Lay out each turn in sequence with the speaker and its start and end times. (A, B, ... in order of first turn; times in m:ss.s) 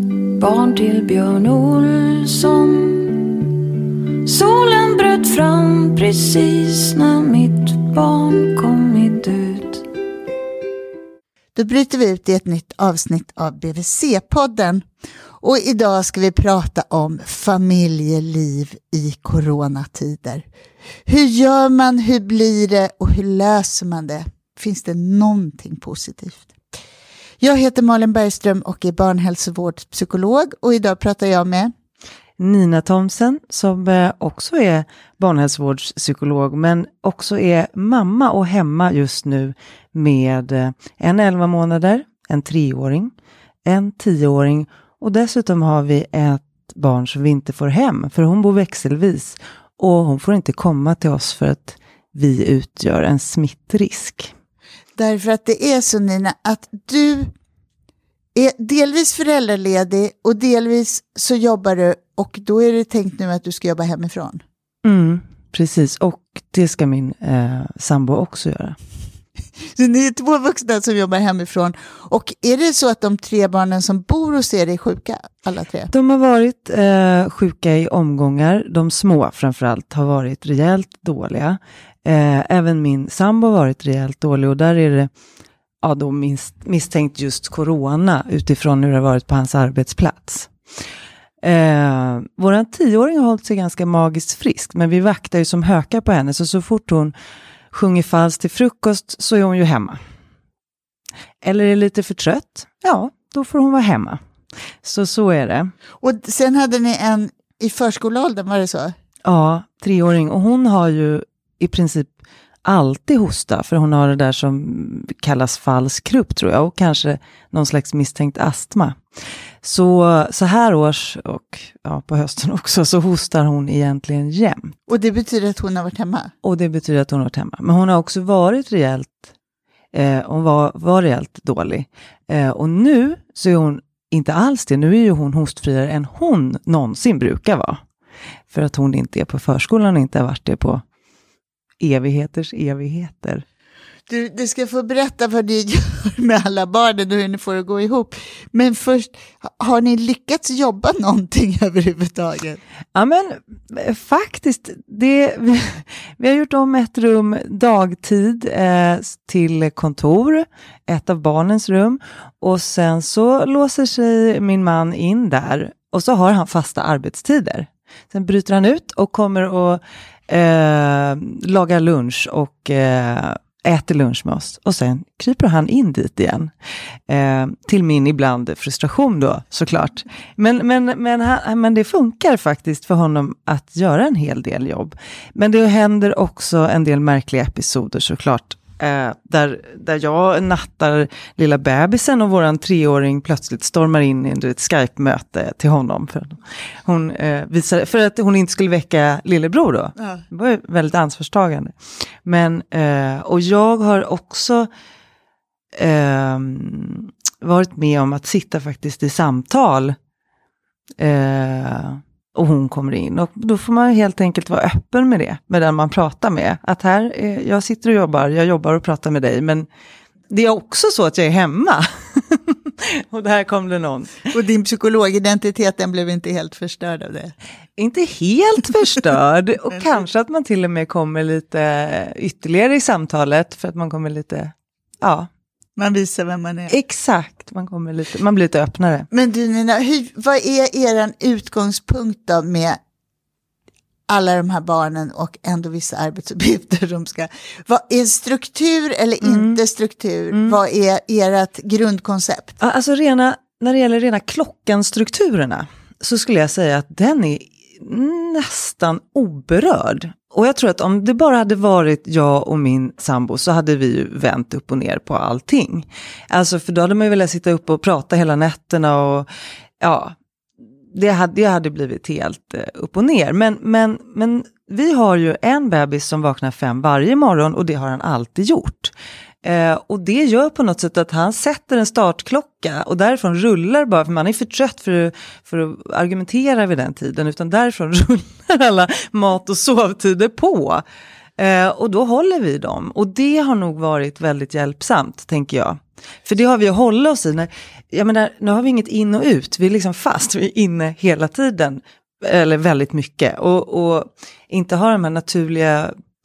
0:00.4-0:03.4 A
0:04.2-0:09.9 A
0:11.6-0:14.8 B
0:15.4-0:20.5 B
0:21.1-0:26.6 B
0:27.4-0:31.7 B
0:32.4-0:43.1 C
0:43.6-0:54.3 C
0:55.0-0:57.3 B
0:58.3-1:04.4 B
1:04.8-1:08.8 C
1:09.8-1:15.9 B
1:15.9-1:25.1 C
1:25.8-1:30.5 C
1:31.4-1:37.1 C
1:37.7-1:40.0 C
1:41.4-1:44.2 C
1:44.8-1:45.7 C
1:46.0-1:48.9 B
1:49.2-1:52.1 C
1:52.6-1:59.0 C
1:59.6-2:04.8 C
2:04.9-2:06.3 B
2:06.4-2:09.3 C
2:09.9-2:17.8 C
2:18.5-2:20.8 C
2:21.8-2:23.4 C
2:24.1-2:32.6 B
2:33.0-2:56.5 C
2:57.1-3:24.7 C
3:25.8-3:30.0 C
3:31.0-3:39.7 C
3:40.3-3:44.3 C
3:44.3-3:47.3 B
3:47.8-3:55.3 C
3:55.8-3:56.8 B
3:56.7-3:59.1 C
3:59.1-4:02.8 B
4:04.1-4:12.6 B
4:09.2-4:09.6 C
4:10.3-4:10.6 C
4:12.6-4:29.3 C
4:29.8-4:30.2 C
4:30.9-4:38.9 C
4:39.4-4:50.8 C
4:51.4-5:05.9 C